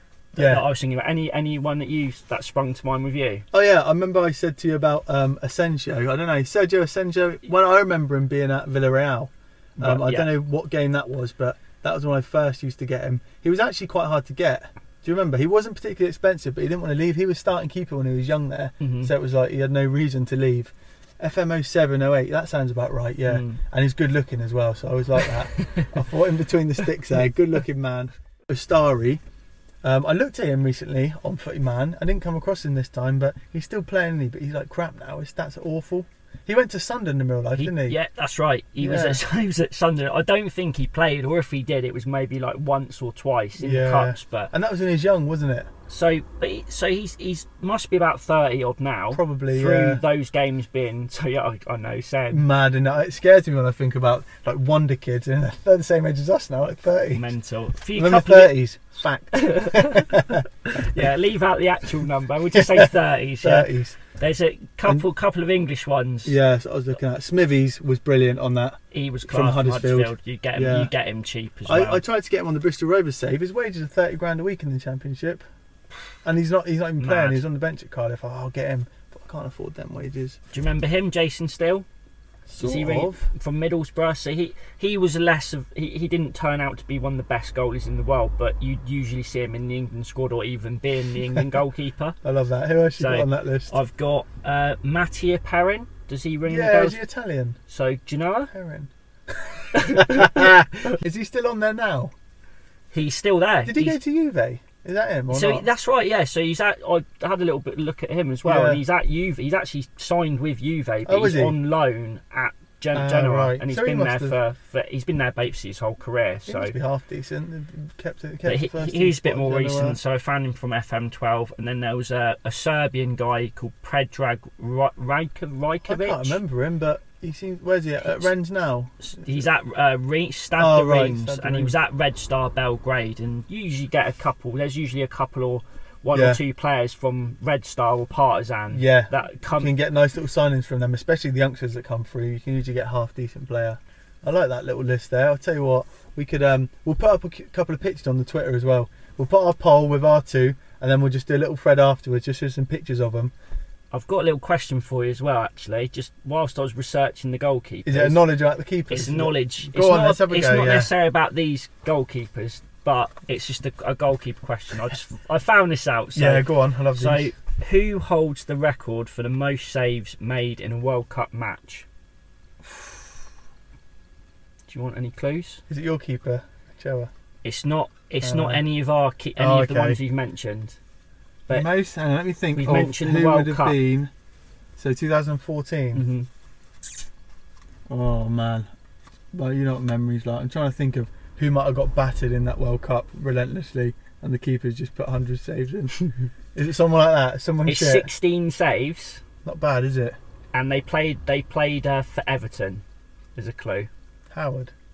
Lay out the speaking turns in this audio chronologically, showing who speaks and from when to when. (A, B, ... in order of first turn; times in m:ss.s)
0:00.4-0:00.6 A
0:00.4-0:03.4 B
0:03.5-0:29.2 A
0:09.8-0:10.4 B
0:18.8-0:19.1 B
0:23.3-0:23.6 B
0:29.8-0:38.0 A
0:37.5-0:44.5 B
0:38.8-0:39.2 A
0:43.6-0:45.7 A
0:45.9-0:52.4 B
0:49.1-0:50.0 A
0:52.3-0:57.3 A
0:57.1-0:58.5 B
0:57.9-1:00.4 A
0:59.3-1:00.0 B
1:00.7-1:06.4 B
1:02.5-1:02.9 A
1:03.4-1:04.0 A
1:06.2-1:10.9 A
1:08.9-1:12.0 B
1:11.6-1:15.4 A
1:16.2-1:20.4 A
1:17.0-1:17.4 B
1:20.5-1:21.8 B
1:22.5-1:23.3 A
1:22.6-1:32.2 B
1:32.2-1:33.8 A
1:33.0-1:37.0 B
1:36.4-1:37.6 A
1:37.7-1:38.5 B
1:38.5-1:42.1 A
1:39.7-1:40.4 B
1:42.9-1:44.0 B
1:43.6-1:45.7 A
1:45.3-1:56.7 B
1:48.4-1:48.8 A
1:51.0-1:51.6 A
1:52.9-1:54.4 A
1:56.5-2:00.0 A
1:58.4-2:06.4 B
2:05.8-2:09.1 A
2:08.0-2:08.3 B
2:09.0-2:19.7 B
2:10.6-2:11.8 A
2:16.1-2:16.4 A
2:18.7-2:33.3 A
2:33.9-2:38.2 B
2:37.8-2:40.9 A
2:38.9-2:51.9 B
2:46.1-2:47.3 A
2:52.6-2:52.9 B
2:54.7-2:55.6 B
2:55.7-2:57.1 A
2:57.4-3:00.8 B
2:58.2-2:58.6 A
2:59.4-3:00.0 A
3:01.5-3:04.1 A
3:02.5-3:03.8 B
3:04.8-3:06.0 A
3:05.9-3:06.3 B
3:07.9-3:08.7 A
3:09.3-3:18.1 A
3:17.6-3:19.2 B
3:19.4-3:20.2 A
3:20.5-3:22.8 B
3:23.4-3:23.9 B
3:24.3-3:24.7 A